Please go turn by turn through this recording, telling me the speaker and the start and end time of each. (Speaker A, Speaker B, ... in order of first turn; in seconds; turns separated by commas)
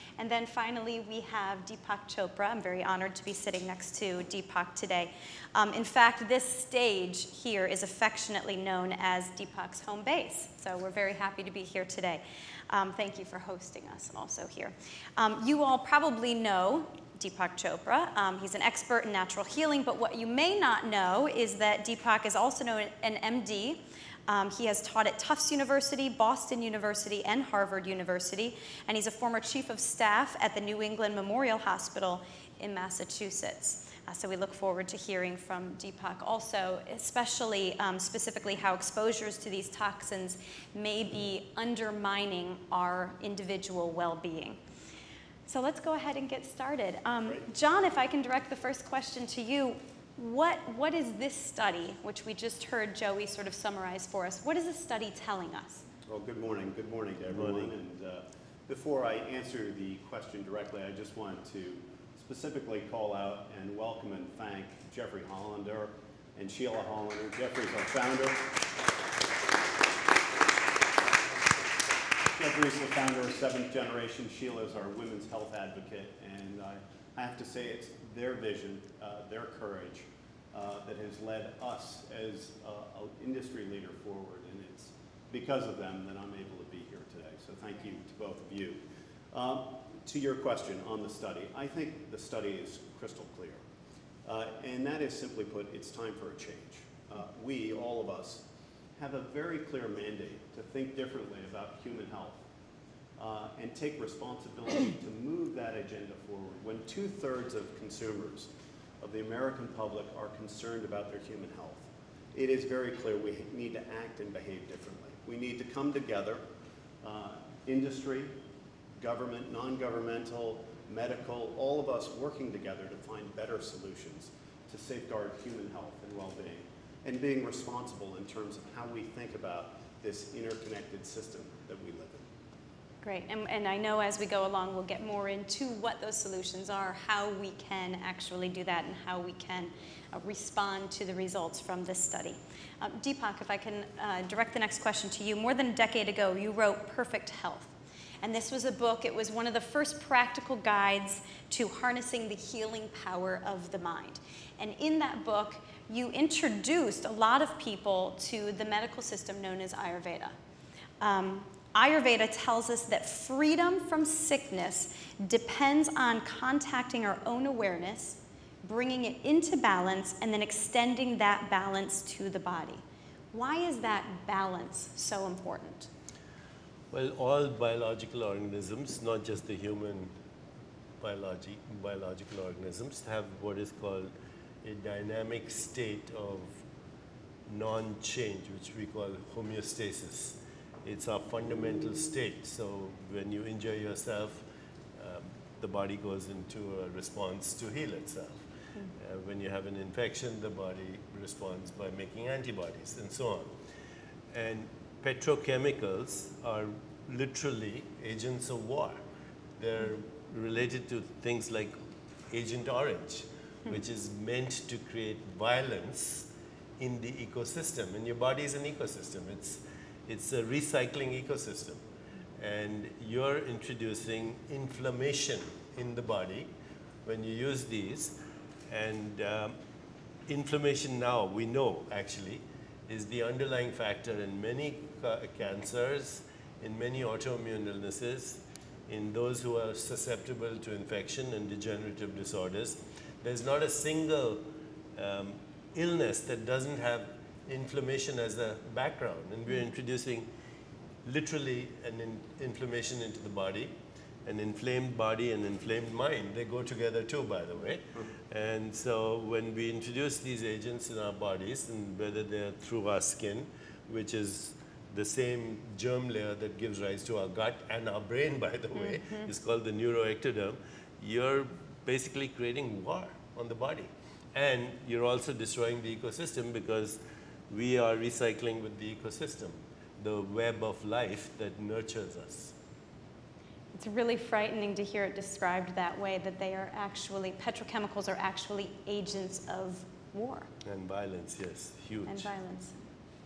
Speaker A: 0.2-44.6, Speaker A: 45.5-55.8, Speaker B: 56.1-68.4, Speaker C: 57.3-57.7, Speaker B: 72.3-88.8, Speaker B: 89.3-93.6, Speaker B: 94.2-98.4, Speaker B: 99.0-102.4, Speaker B: 103.2-108.5, Speaker B: 109.0-116.4, Speaker B: 117.0-118.3, Speaker B: 119.0-132.2, Speaker A: 133.0-160.3, Speaker A: 161.0-172.8, Speaker A: 173.3-175.9, Speaker C: 176.9-180.1, Speaker C: 181.0-184.1, Speaker C: 184.6-186.6, Speaker C: 187.5-194.4, Speaker C: 195.0-198.4, Speaker C: 199.0-203.5, Speaker C: 204.3-209.0, Speaker C: 209.6-211.7, Speaker C: 212.3-216.3, Speaker C: 216.8-221.8, Speaker C: 222.4-226.5, Speaker C: 227.0-228.2, Speaker C: 228.7-229.6, Speaker C: 230.3-244.4, Speaker C: 244.9-250.3, Speaker C: 251.0-253.7, Speaker C: 254.2-277.0, Speaker A: 268.7-269.3, Speaker C: 277.5-282.5, Speaker A: 283.7-290.5, Speaker C: 290.6-292.3, Speaker A: 292.1-292.8